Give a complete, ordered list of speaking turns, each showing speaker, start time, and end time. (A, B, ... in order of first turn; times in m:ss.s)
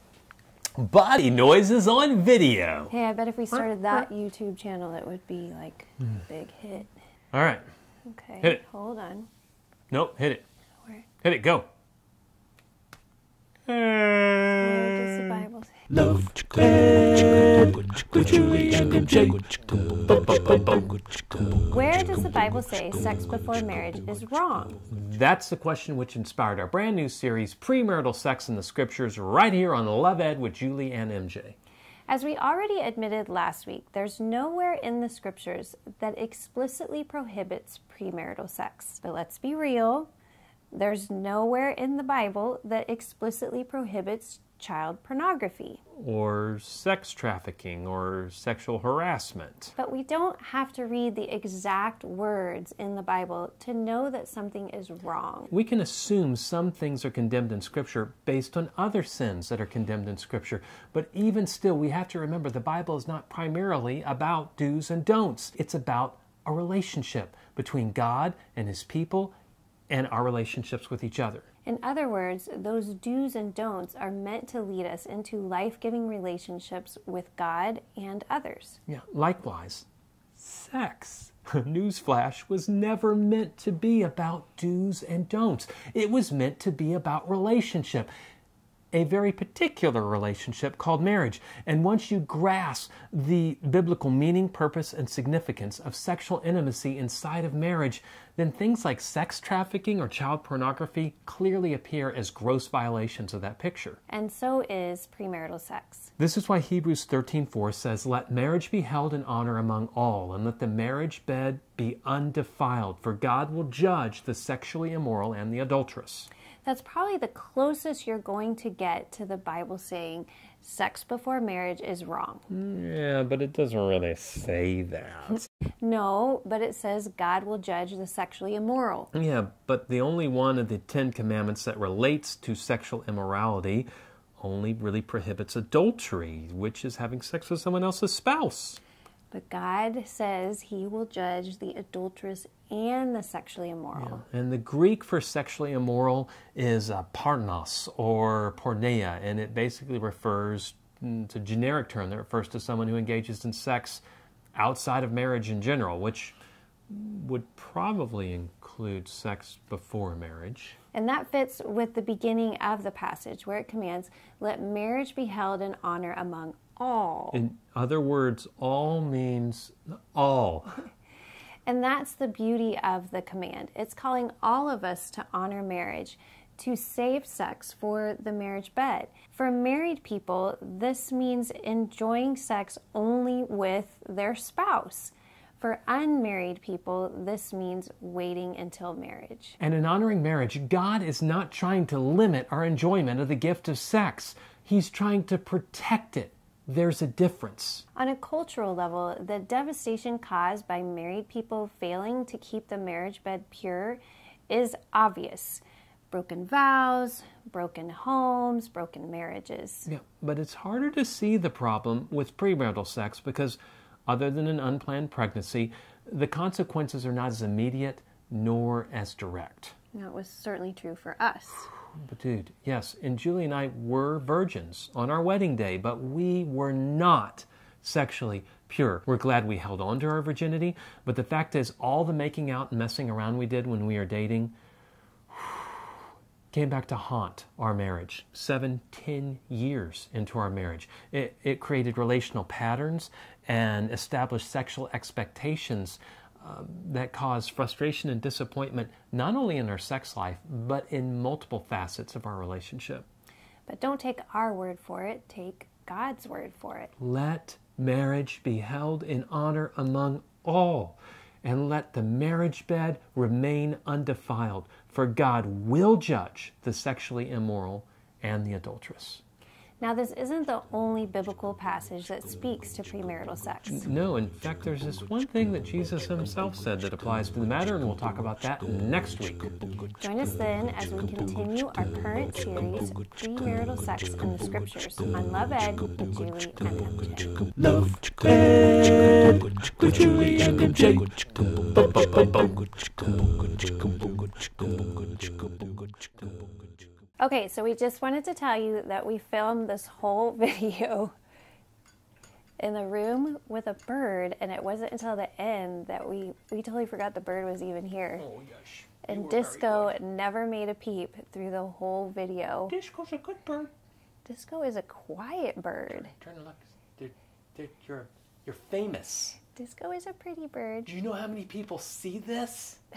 0:00.8-0:02.9 A
0:02.9-0:06.9 B
0:03.5-0:04.1 A
0:07.3-0:07.7 A
0:08.1-0:09.3 B
0:09.9-0:10.4 A
0:11.2-0:11.7 A
0:13.7-0:15.4 A
0:14.6-0:16.1 B
0:16.2-0:17.0 C
0:17.0-0:17.6 A
0:18.2-0:19.4 C
0:20.1-0:20.9 A
0:21.6-0:24.8 B
0:24.9-0:31.6 A
0:32.1-0:40.1 B
0:40.7-0:45.8 B
0:46.0-0:49.7 A
0:49.8-0:55.5 B
0:55.5-1:09.3 A
1:09.9-1:11.5 A
1:11.7-1:18.8 B
1:18.9-1:28.1 A
1:28.9-1:44.0 A
1:44.1-1:46.1 B
1:46.2-1:56.3 A
1:56.6-2:02.5 B
2:02.5-2:05.5 A
2:05.8-2:09.1 B
2:09.1-2:18.8 A
2:19.3-2:24.2 B
2:24.0-2:34.0 A
2:34.6-2:36.4 A
2:36.9-2:40.8 A
2:40.9-2:47.4 B
2:47.3-2:50.8 A
2:51.7-3:09.6 B
3:09.6-3:17.8 A
3:18.0-3:29.9 B
3:29.9-3:39.8 A
3:39.9-3:41.7 B
3:41.9-3:54.5 A
3:55.3-3:56.0 A
3:56.5-4:13.1 A
4:13.7-4:16.9 B
4:17.0-4:29.2 A
4:29.8-4:33.9 B
4:33.7-4:39.5 A
4:40.0-4:47.6 B
4:47.8-4:49.0 C
4:49.8-4:51.1 C
4:57.2-5:01.1 B
5:02.6-5:08.3 B
5:08.2-5:10.0 A
5:09.1-5:12.7 B
5:12.7-5:13.7 A
5:14.3-5:16.1 B
5:15.9-5:19.4 A
5:19.5-5:20.9 B
5:20.9-5:22.8 A